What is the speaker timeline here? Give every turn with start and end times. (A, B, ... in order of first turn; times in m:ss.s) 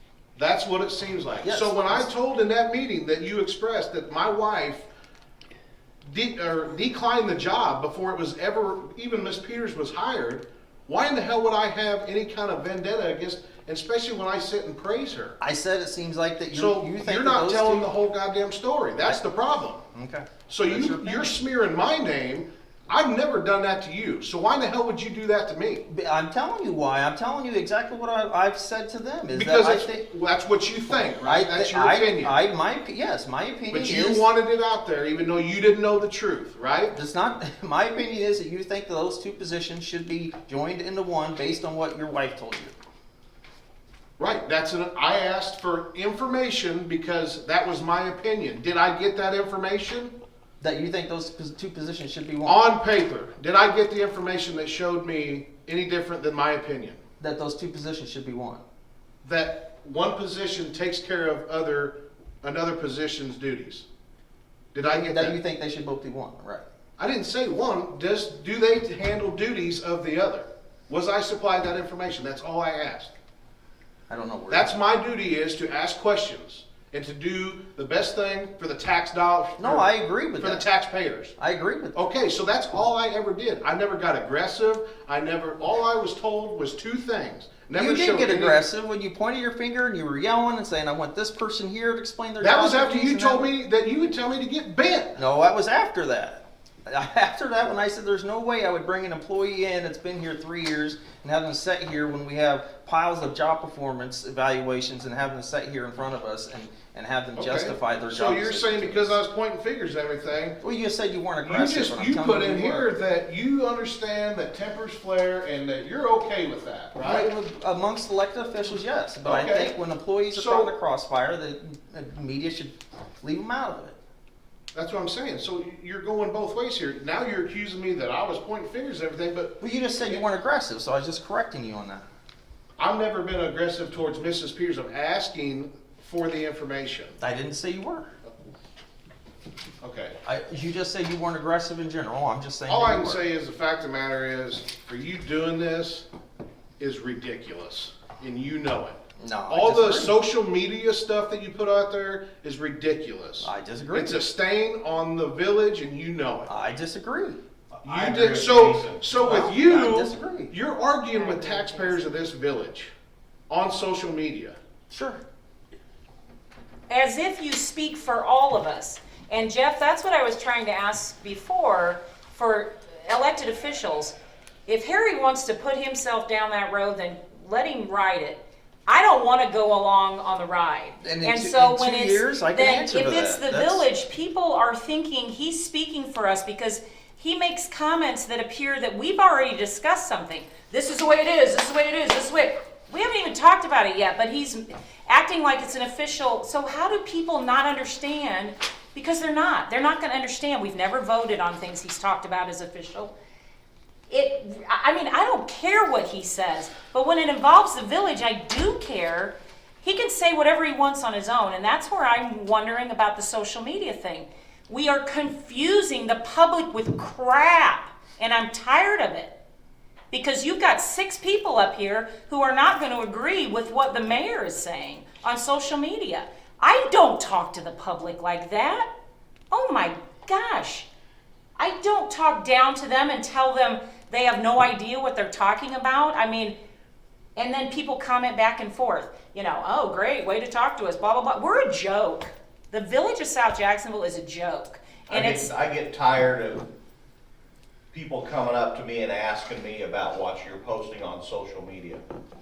0:00.4-0:04.9 A
0:01.4-0:02.1 B
0:06.1-0:15.4 A
0:15.4-0:17.9 B
0:16.5-0:19.8 A
0:19.9-0:21.4 B
0:20.5-0:25.9 A
0:25.9-0:30.0 B
0:29.3-0:32.3 A
0:31.2-0:34.2 B
0:33.7-0:37.0 A
0:36.9-0:42.7 B
0:44.2-0:50.1 A
0:50.6-0:52.6 B
0:52.4-0:57.0 A
0:57.2-0:58.6 B
0:59.2-1:03.9 A
1:04.7-1:05.4 A
1:04.8-1:06.7 B
1:07.0-1:13.1 A
1:14.1-1:14.7 B
1:14.5-1:21.3 A
1:19.6-1:20.6 B
1:21.4-1:22.0 B
1:22.0-1:28.6 A
1:27.7-1:33.5 B
1:32.4-1:35.2 A
1:35.2-1:49.2 B
1:47.4-1:50.6 A
1:50.6-1:52.9 B
1:51.4-1:57.3 A
1:57.0-2:04.0 B
1:59.2-1:59.8 A
2:00.3-2:00.7 A
2:04.7-2:10.2 A
2:09.6-2:12.0 B
2:12.8-2:17.2 A
2:17.2-2:18.1 B
2:19.8-2:20.2 A
2:20.2-2:23.2 B
2:22.7-2:26.1 A
2:26.8-2:29.0 A
2:29.2-2:30.2 B
2:29.5-2:36.5 A
2:33.4-2:34.3 B
2:36.5-2:37.4 B
2:37.7-2:39.1 C
2:37.8-2:42.9 A
2:39.1-2:40.5 B
2:41.1-2:42.0 D
2:43.5-2:44.6 A
2:44.9-2:45.2 B
2:46.9-3:23.1 D
3:01.0-3:03.9 B
3:24.1-3:39.3 D
3:40.1-3:48.9 D
3:49.5-3:50.9 D
3:51.6-3:56.6 D
3:57.4-4:05.5 D
4:05.1-4:06.7 C
4:07.9-4:12.0 C